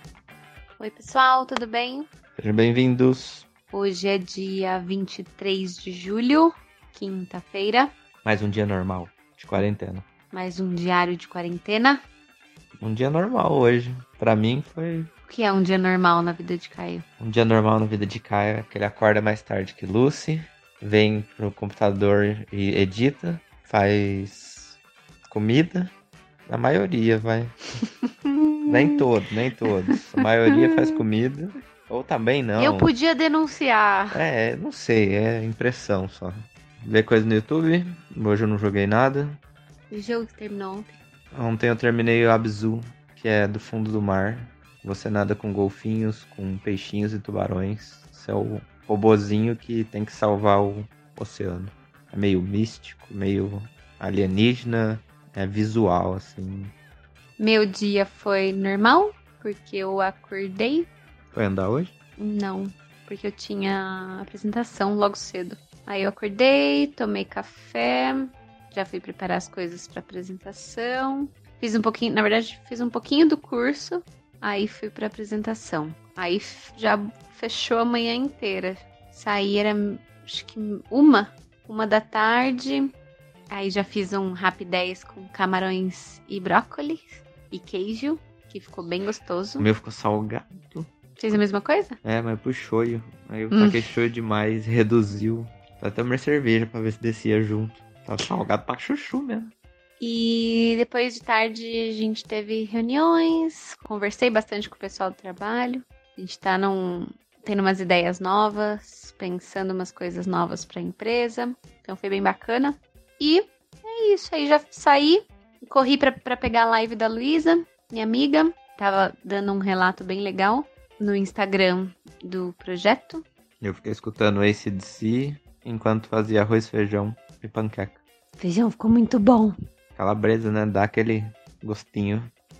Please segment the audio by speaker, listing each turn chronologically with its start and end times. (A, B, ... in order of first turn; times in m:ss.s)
0:00.8-0:02.1 A
0:02.4-0:03.5 B
0:03.7-0:07.9 A
0:08.2-0:10.0 B
0:10.3-0:12.0 A
0:12.8-0:15.1 B
0:15.3-0:17.0 A
0:17.2-0:25.9 B
0:26.5-0:27.6 B
0:28.3-0:29.0 A
0:28.7-0:32.9 B
0:30.5-0:31.0 A
0:32.6-0:34.2 A
0:34.1-0:39.4 B
0:39.9-0:40.9 A
0:41.3-0:56.7 B
0:57.4-1:00.9 A
1:01.3-1:01.9 B
1:02.2-1:22.9 A
1:23.5-1:29.7 A
1:29.6-1:30.9 B
1:31.2-1:32.0 A
1:32.0-1:39.5 B
1:33.5-1:33.8 A
1:40.0-2:03.2 A
2:03.6-2:08.0 B
2:08.4-2:09.5 A
2:10.0-2:12.3 B